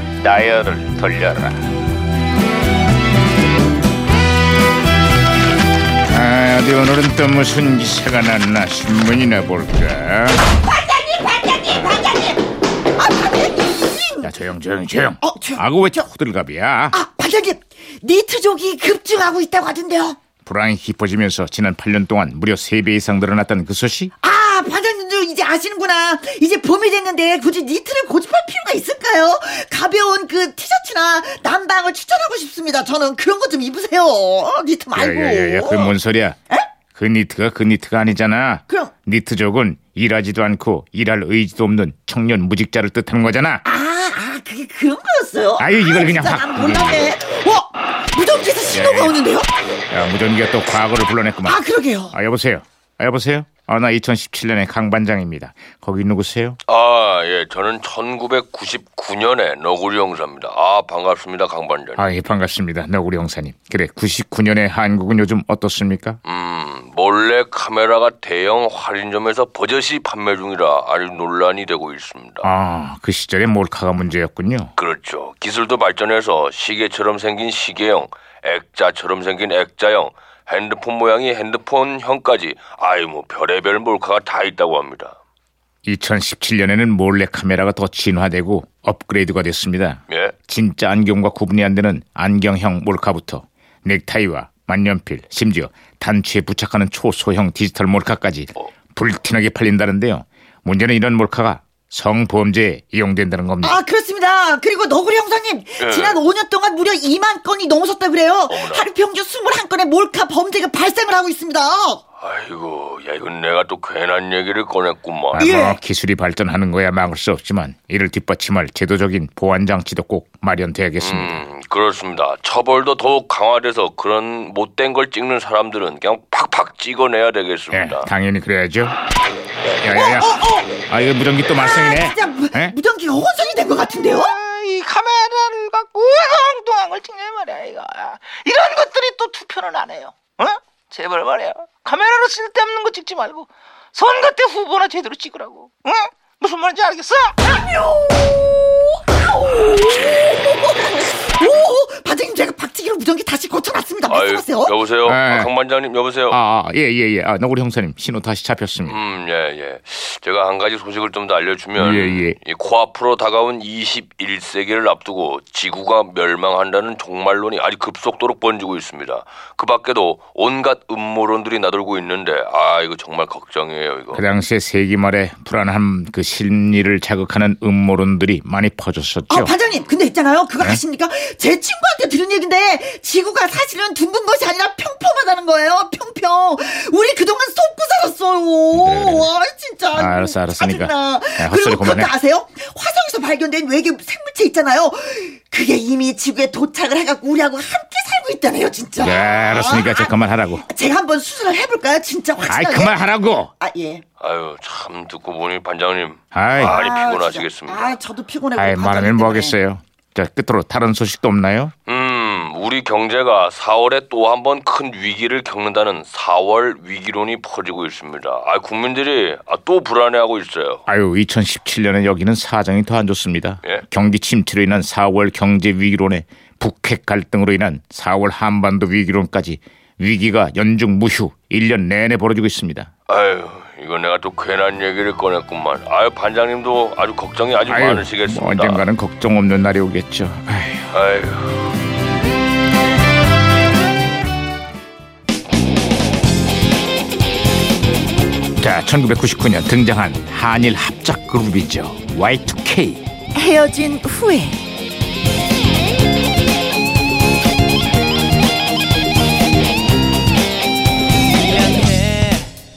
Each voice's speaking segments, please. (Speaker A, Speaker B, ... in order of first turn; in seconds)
Speaker A: 0.2-1.6, 6.0-10.4, 14.2-17.0, 20.4-24.1, 35.0-36.4, 37.0-43.6, 45.6-47.1, 48.7-49.2, 49.9-51.6, 52.1-56.6, 62.0-66.2, 72.4-74.7, 85.8-103.8, 115.3-121.4, 127.7-128.9, 129.8-130.3, 130.9-132.8, 155.0-155.5, 156.3-159.0, 161.8-162.4, 174.1-179.5, 188.7-189.3, 189.9-192.1, 199.0-200.6, 202.4-203.5, 206.3-206.8, 208.6-211.7, 220.9-232.9, 237.7-240.9, 248.6-253.0
Speaker B: 10.6-12.4, 13.0-14.3, 15.2-16.1, 16.9-20.2, 24.2-36.0, 43.6-49.5, 51.4-52.1, 103.6-112.0, 115.4-115.8, 129.9-130.7, 131.6-134.3, 147.6-148.3, 149.1-154.7, 179.3-203.0, 203.6-204.0, 206.6-209.6, 253.3-254.6
Speaker C: 56.6-62.0, 66.2-72.5, 74.8-85.2, 90.1-90.3, 105.8-106.2, 108.5-108.9, 112.2-115.4, 121.0-128.1, 150.0-150.3, 154.1-156.4, 158.9-174.2, 204.2-207.9, 211.9-220.8, 233.1-238.9, 240.9-241.7
Speaker D: 134.2-147.4, 261.6-262.5